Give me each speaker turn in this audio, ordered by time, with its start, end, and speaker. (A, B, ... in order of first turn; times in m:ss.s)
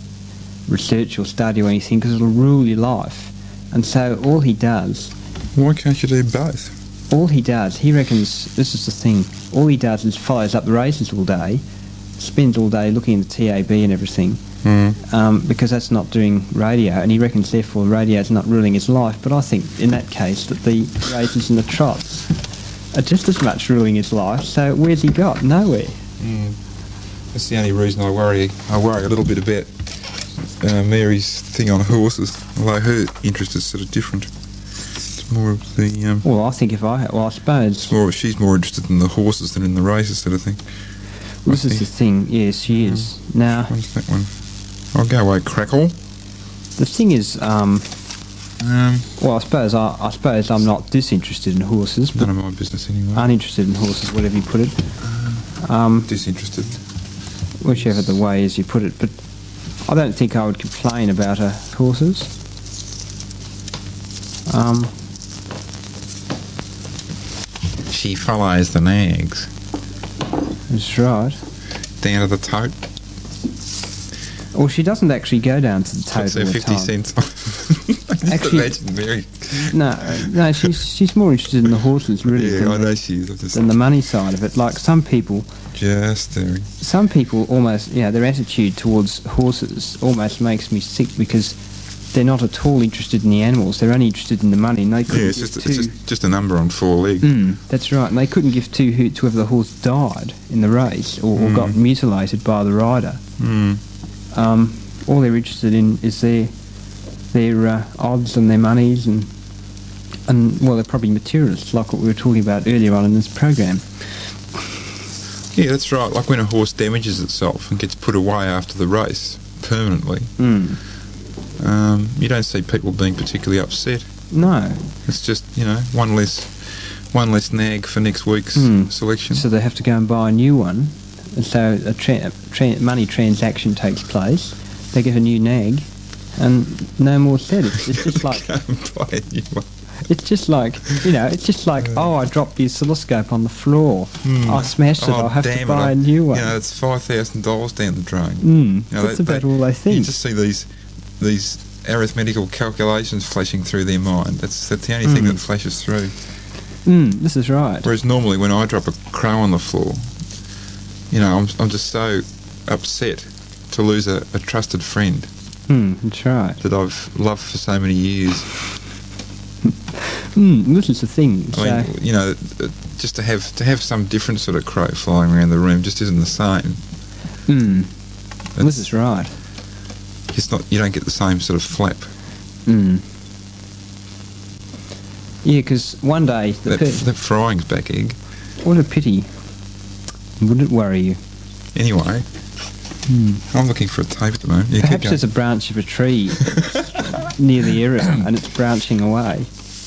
0:00.7-0:05.1 A
0:05.5-0:06.7 B
0:07.1-0:11.6 A
0:12.2-0:14.4 A
0:14.6-0:15.0 B
0:15.0-0:22.3 A
0:22.9-0:26.0 A
0:26.2-0:26.6 B
0:27.3-0:34.3 B
0:35.1-0:36.2 B
0:36.2-0:37.9 A
0:37.9-0:40.6 B
0:41.4-0:43.7 A
0:41.5-0:41.9 B
0:42.7-0:43.1 B
0:43.7-0:44.3 B
0:44.9-0:45.9 B
0:46.8-0:47.9 A
0:48.6-0:49.1 B
0:49.2-0:52.3 A
0:52.1-0:53.3 B
0:53.1-0:54.8 A
0:55.0-0:55.4 B
0:55.6-0:56.1 A
0:56.1-0:56.8 B
0:57.6-0:59.2 A
0:59.8-1:02.3 A
1:04.5-1:04.9 A
1:07.9-1:09.5 B
1:10.7-1:11.4 A
1:12.0-1:12.8 B
1:14.5-1:16.9 A
1:16.1-1:20.7 B
1:18.2-1:18.7 A
1:19.5-1:23.0 A
1:22.2-1:23.7 B
1:23.5-1:25.5 A
1:25.7-1:26.7 B
1:26.8-1:31.6 A
1:32.1-1:35.9 A
1:35.1-1:37.3 B
1:37.2-1:43.2 A
1:41.4-1:41.8 B
1:43.4-1:43.8 B
1:44.3-1:46.5 A
1:47.3-1:49.3 A
1:50.3-1:53.8 A
1:55.5-2:00.3 B
2:00.4-2:00.8 A
2:01.6-2:04.1 B
2:04.3-2:04.9 A
2:05.0-2:09.4 B
2:08.5-2:18.5 A
2:17.7-2:19.7 B
2:20.0-2:26.5 A
2:24.2-2:36.1 B
2:28.4-2:30.2 A
2:35.0-2:35.4 A
2:36.8-2:37.9 A
2:37.8-2:40.0 B
2:41.1-2:45.3 B
2:45.7-2:46.6 A
2:46.6-2:48.5 B
2:49.9-2:51.9 A
2:51.5-2:56.8 B
2:57.5-2:57.9 A
2:58.6-2:58.8 B
2:58.6-2:59.3 A
3:00.3-3:02.1 B
3:02.6-3:03.0 A
3:05.4-3:07.0 A
3:06.7-3:08.2 B
3:08.6-3:09.3 A
3:10.4-3:11.2 A
3:11.7-3:12.2 B
3:13.1-3:13.4 A
3:13.5-3:15.2 B
3:14.8-3:19.5 A